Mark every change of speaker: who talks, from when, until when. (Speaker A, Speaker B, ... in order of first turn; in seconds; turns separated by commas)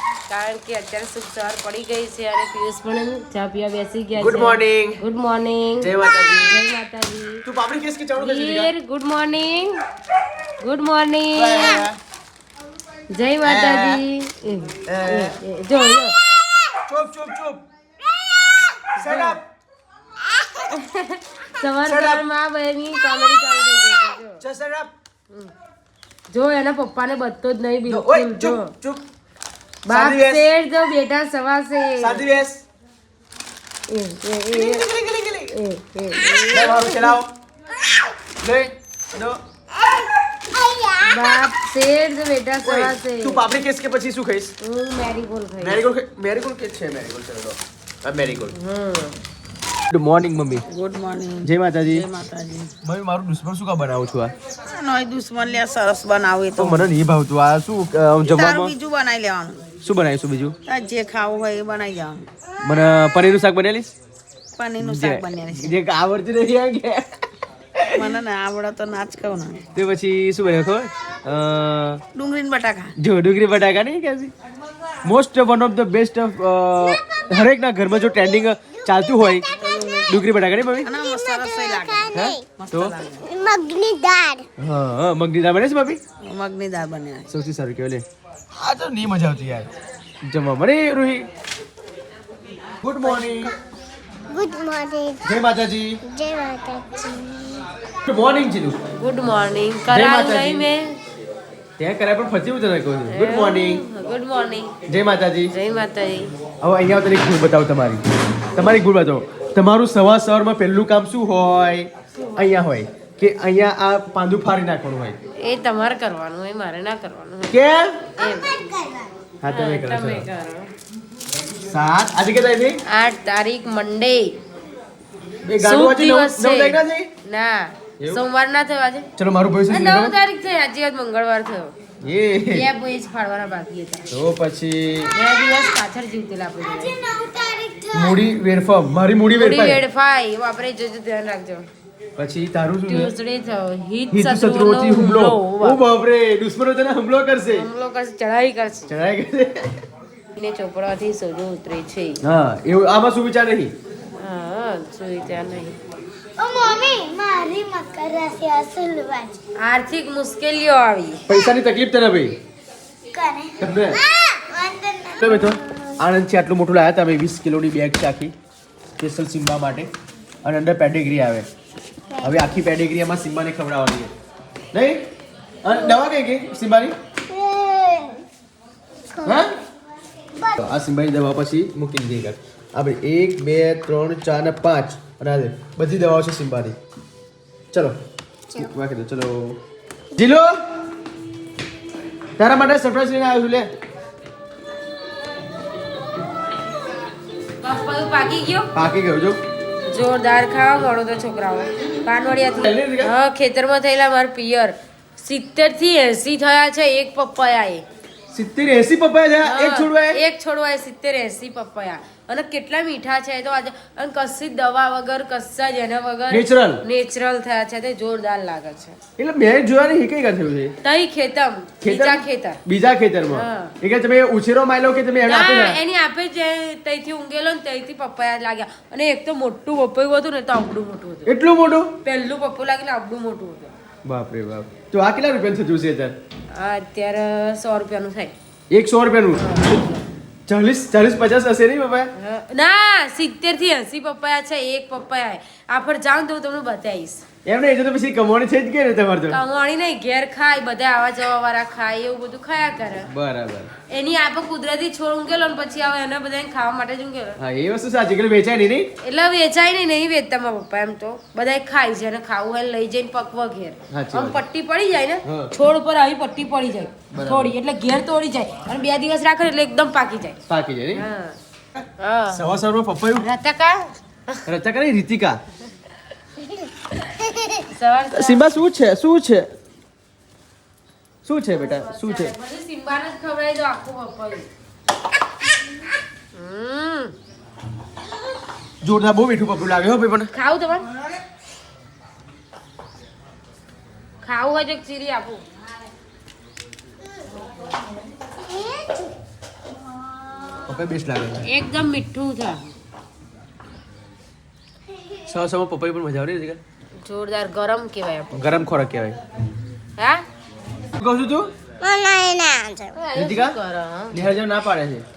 Speaker A: 0.3-7.5, Speaker B: 4.2-5.0, Speaker B: 5.8-6.6, Speaker B: 7.4-8.7, Speaker A: 8.2-9.8, Speaker A: 10.6-11.8, Speaker B: 11.3-12.0, Speaker A: 13.1-16.2, Speaker B: 13.4-14.0, Speaker B: 14.9-15.4, Speaker B: 16.8-17.6, Speaker A: 18.9-19.4, Speaker B: 18.9-19.4, Speaker A: 20.5-24.4, Speaker B: 21.8-22.2, Speaker B: 24.4-24.9, Speaker A: 26.3-28.7, Speaker B: 27.9-29.0, Speaker B: 29.9-30.5, Speaker A: 29.9-32.3, Speaker B: 32.0-32.6, Speaker A: 33.9-34.9, Speaker B: 34.5-35.5, Speaker A: 35.5-37.1, Speaker B: 36.5-37.3, Speaker B: 38.4-39.4, Speaker C: 40.5-41.4, Speaker A: 41.0-43.4, Speaker B: 42.6-44.5, Speaker A: 44.6-45.8, Speaker B: 45.6-48.5, Speaker A: 48.5-49.2, Speaker B: 49.9-50.6, Speaker D: 50.7-52.7, Speaker B: 51.4-52.1, Speaker B: 52.8-54.3, Speaker D: 54.7-56.9, Speaker B: 56.6-58.7, Speaker D: 58.2-59.6, Speaker B: 59.8-60.5, Speaker D: 60.7-62.3, Speaker B: 62.6-63.9, Speaker D: 64.6-65.8, Speaker B: 64.8-67.2, Speaker B: 67.8-68.1, Speaker D: 67.9-69.6, Speaker B: 69.8-72.0, Speaker D: 72.2-72.9, Speaker B: 73.0-74.3, Speaker B: 75.0-79.5, Speaker C: 77.0-77.4, Speaker C: 78.0-79.7, Speaker D: 79.6-80.2, Speaker B: 80.1-80.9, Speaker D: 80.8-83.2, Speaker C: 81.0-82.5, Speaker B: 82.1-82.9, Speaker C: 83.2-84.5, Speaker B: 84.6-86.0, Speaker D: 86.2-87.3, Speaker B: 87.3-89.7, Speaker B: 90.2-91.3, Speaker B: 92.8-93.5, Speaker C: 94.3-95.3, Speaker B: 95.2-96.0, Speaker C: 96.0-97.7, Speaker B: 98.1-98.8, Speaker A: 99.0-101.0, Speaker B: 99.9-100.7, Speaker B: 101.8-103.8, Speaker A: 103.1-104.7, Speaker B: 104.9-105.5, Speaker A: 105.5-106.3, Speaker B: 106.6-108.0, Speaker B: 108.5-115.2, Speaker A: 112.2-112.5, Speaker A: 115.4-117.6, Speaker B: 117.5-118.1, Speaker A: 118.2-118.5, Speaker C: 118.2-119.1, Speaker B: 119.4-120.3, Speaker A: 119.5-120.7, Speaker B: 121.6-122.8, Speaker A: 122.8-124.4, Speaker B: 125.4-127.1, Speaker A: 125.6-129.1, Speaker B: 129.2-130.2, Speaker A: 129.7-131.8, Speaker B: 132.0-132.7, Speaker A: 132.5-134.1, Speaker B: 134.1-135.1, Speaker A: 135.1-136.9, Speaker C: 136.6-138.2, Speaker B: 137.9-139.8, Speaker A: 139.3-141.7, Speaker B: 142.2-143.1, Speaker A: 142.9-145.8, Speaker B: 144.1-147.7, Speaker A: 147.5-148.9, Speaker B: 148.9-149.8, Speaker A: 150.3-152.2, Speaker B: 152.2-153.7, Speaker A: 154.2-155.8, Speaker C: 156.4-159.4, Speaker A: 159.6-161.2, Speaker B: 161.3-162.4, Speaker C: 163.1-166.0, Speaker B: 163.6-164.0, Speaker B: 165.2-168.3, Speaker B: 169.0-169.9, Speaker B: 170.4-171.5, Speaker C: 172.1-172.4, Speaker B: 172.2-174.1, Speaker B: 174.7-175.1, Speaker B: 175.6-176.9, Speaker C: 177.3-178.2, Speaker C: 179.1-179.4, Speaker B: 179.2-179.5, Speaker B: 180.6-186.8, Speaker B: 187.7-188.0, Speaker B: 188.5-189.6, Speaker B: 190.1-190.6, Speaker B: 192.4-193.7, Speaker A: 197.6-198.7, Speaker B: 198.7-199.4, Speaker A: 199.9-207.8, Speaker B: 202.4-203.1, Speaker B: 208.3-210.2, Speaker A: 209.4-219.0, Speaker B: 216.3-216.8, Speaker B: 219.2-220.7, Speaker A: 220.8-222.6, Speaker B: 221.8-225.8, Speaker A: 223.3-223.8, Speaker A: 225.2-231.3, Speaker B: 231.2-231.9, Speaker A: 232.0-233.7, Speaker B: 234.1-236.2, Speaker A: 236.5-238.3, Speaker B: 238.7-239.7, Speaker A: 239.3-240.0, Speaker B: 240.5-242.1, Speaker A: 242.2-247.2, Speaker B: 247.4-249.4, Speaker A: 249.3-253.1, Speaker B: 253.1-253.7, Speaker A: 253.9-257.4, Speaker B: 257.4-258.9, Speaker A: 259.0-270.4, Speaker B: 263.9-264.4, Speaker B: 265.2-265.5, Speaker B: 267.1-267.5, Speaker B: 270.5-271.0, Speaker A: 270.9-271.4, Speaker A: 272.0-272.4, Speaker B: 272.3-273.3, Speaker A: 273.1-274.4, Speaker B: 274.4-275.4, Speaker A: 277.2-278.5, Speaker B: 278.1-279.5, Speaker B: 281.2-282.3, Speaker A: 281.5-284.5, Speaker A: 286.3-287.1, Speaker B: 288.8-290.3, Speaker A: 290.3-290.9, Speaker A: 294.2-295.4, Speaker C: 298.5-299.1, Speaker B: 300.6-301.5, Speaker A: 301.4-302.6, Speaker B: 305.3-306.6, Speaker A: 307.0-308.4, Speaker B: 308.3-309.2, Speaker A: 310.0-310.2, Speaker B: 310.9-311.5, Speaker C: 311.8-313.0, Speaker A: 312.9-314.2, Speaker B: 313.1-313.6, Speaker B: 314.1-315.0